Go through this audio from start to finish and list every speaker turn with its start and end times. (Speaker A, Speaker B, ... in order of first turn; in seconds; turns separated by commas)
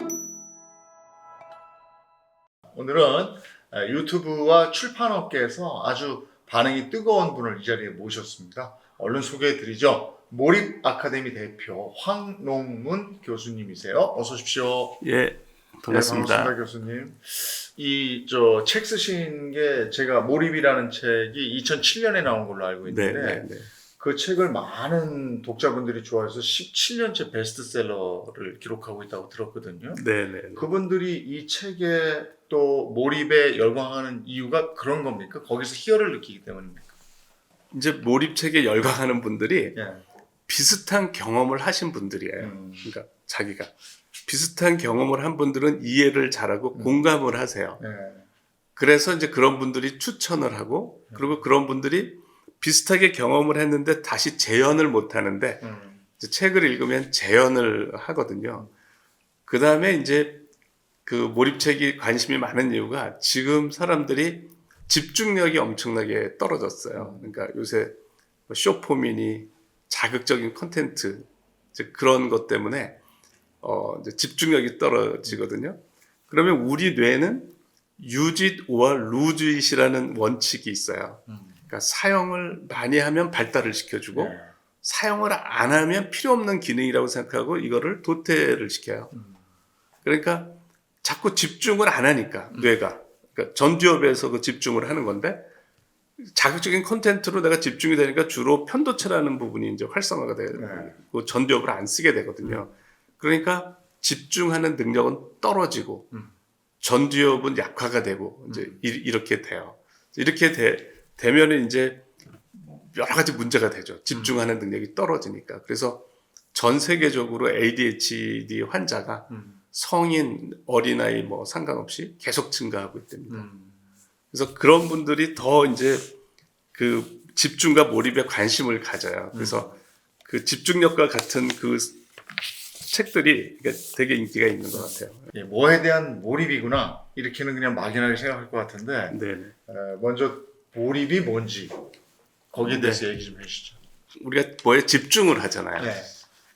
Speaker A: 2.7-15.0, Speaker B: 15.0-16.5, Speaker A: 15.9-23.5, Speaker B: 22.9-23.7, Speaker A: 24.0-30.0, Speaker B: 29.9-30.7, Speaker A: 30.6-36.9, Speaker B: 37.7-39.8, Speaker A: 39.8-40.0, Speaker B: 40.5-43.7, Speaker A: 42.4-42.9, Speaker B: 44.3-47.8, Speaker A: 46.7-47.0, Speaker A: 47.8-48.2, Speaker B: 48.8-55.6, Speaker A: 51.1-51.4, Speaker A: 55.6-56.0, Speaker B: 56.2-58.7, Speaker B: 59.5-60.5, Speaker B: 61.0-68.0, Speaker A: 66.9-67.3, Speaker B: 68.5-73.0, Speaker B: 73.6-75.8, Speaker B: 76.3-89.1, Speaker A: 81.3-81.6, Speaker A: 84.1-84.5, Speaker A: 89.1-89.4, Speaker B: 90.0-95.4, Speaker B: 96.2-106.1, Speaker A: 100.5-100.9, Speaker B: 106.8-123.5, Speaker A: 108.5-108.8, Speaker A: 114.1-114.5, Speaker A: 119.3-119.6, Speaker A: 123.3-123.8, Speaker B: 124.3-126.1, Speaker B: 126.7-129.7, Speaker A: 129.3-129.7, Speaker B: 130.2-132.0, Speaker B: 132.8-135.3, Speaker A: 134.7-141.8, Speaker B: 139.1-139.6, Speaker A: 142.5-143.8, Speaker B: 142.6-143.1, Speaker B: 144.2-145.9, Speaker A: 145.8-146.1